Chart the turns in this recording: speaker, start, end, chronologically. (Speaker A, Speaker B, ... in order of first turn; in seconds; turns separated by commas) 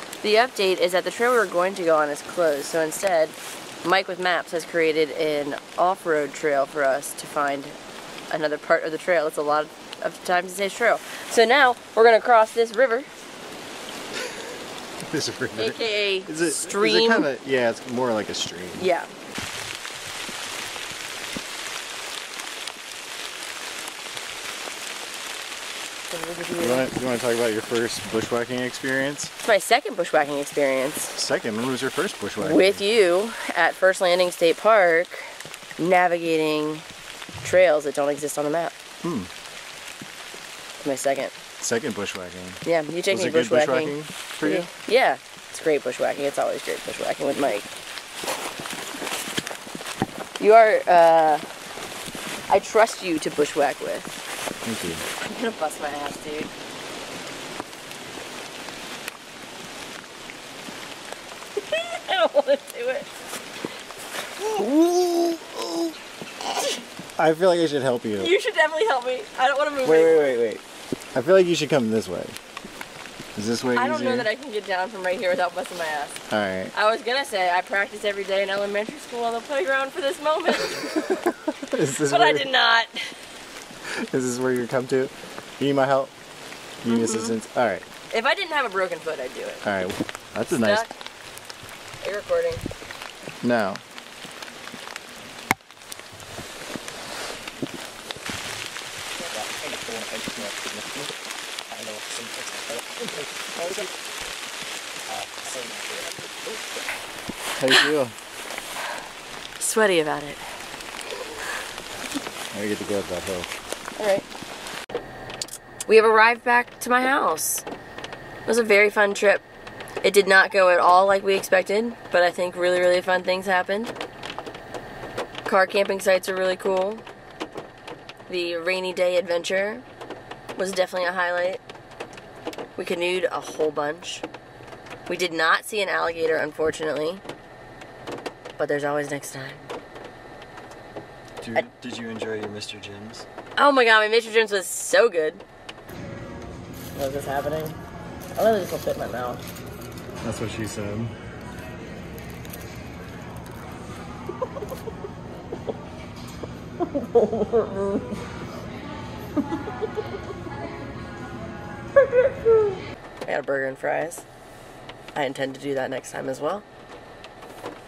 Speaker A: 0.2-7.8, Speaker A: 8.3-13.1, Speaker B: 15.1-18.9, Speaker A: 15.6-17.3, Speaker A: 18.8-19.1, Speaker A: 26.1-26.9, Speaker B: 26.6-29.3, Speaker A: 29.4-31.1, Speaker B: 31.1-32.8, Speaker A: 32.4-36.8, Speaker A: 37.4-38.7, Speaker B: 39.0-39.3, Speaker A: 40.8-41.3, Speaker B: 41.6-44.7, Speaker A: 42.6-47.7, Speaker A: 50.4-51.5, Speaker A: 52.5-54.2, Speaker B: 54.6-55.0, Speaker A: 55.2-56.5, Speaker A: 61.5-63.1, Speaker B: 64.4-65.9, Speaker B: 67.2-68.3, Speaker A: 68.2-70.3, Speaker B: 69.8-70.6, Speaker B: 71.1-72.3, Speaker B: 73.3-74.3, Speaker A: 73.7-76.2, Speaker B: 76.3-76.7, Speaker A: 76.7-81.2, Speaker B: 80.8-82.5, Speaker A: 81.8-83.2, Speaker B: 83.8-86.1, Speaker B: 86.8-87.8, Speaker A: 86.8-87.4, Speaker A: 88.1-89.6, Speaker B: 89.6-90.9, Speaker A: 90.5-90.9, Speaker A: 92.0-92.6, Speaker B: 93.4-93.8, Speaker B: 99.4-101.0, Speaker B: 101.8-102.4, Speaker B: 107.5-108.1, Speaker A: 109.6-110.4, Speaker B: 112.5-113.5, Speaker A: 114.0-114.3, Speaker A: 115.9-117.6, Speaker A: 118.5-119.4, Speaker A: 120.0-123.9, Speaker A: 125.5-127.0, Speaker A: 128.3-129.8, Speaker A: 130.6-131.6, Speaker A: 132.8-134.2, Speaker A: 135.1-137.2, Speaker A: 138.6-139.7, Speaker B: 141.4-143.2, Speaker A: 143.6-145.4, Speaker A: 146.9-147.8, Speaker A: 148.3-149.4, Speaker B: 150.2-151.1, Speaker A: 156.8-158.2, Speaker A: 162.1-162.7, Speaker A: 163.2-164.2, Speaker A: 165.1-166.6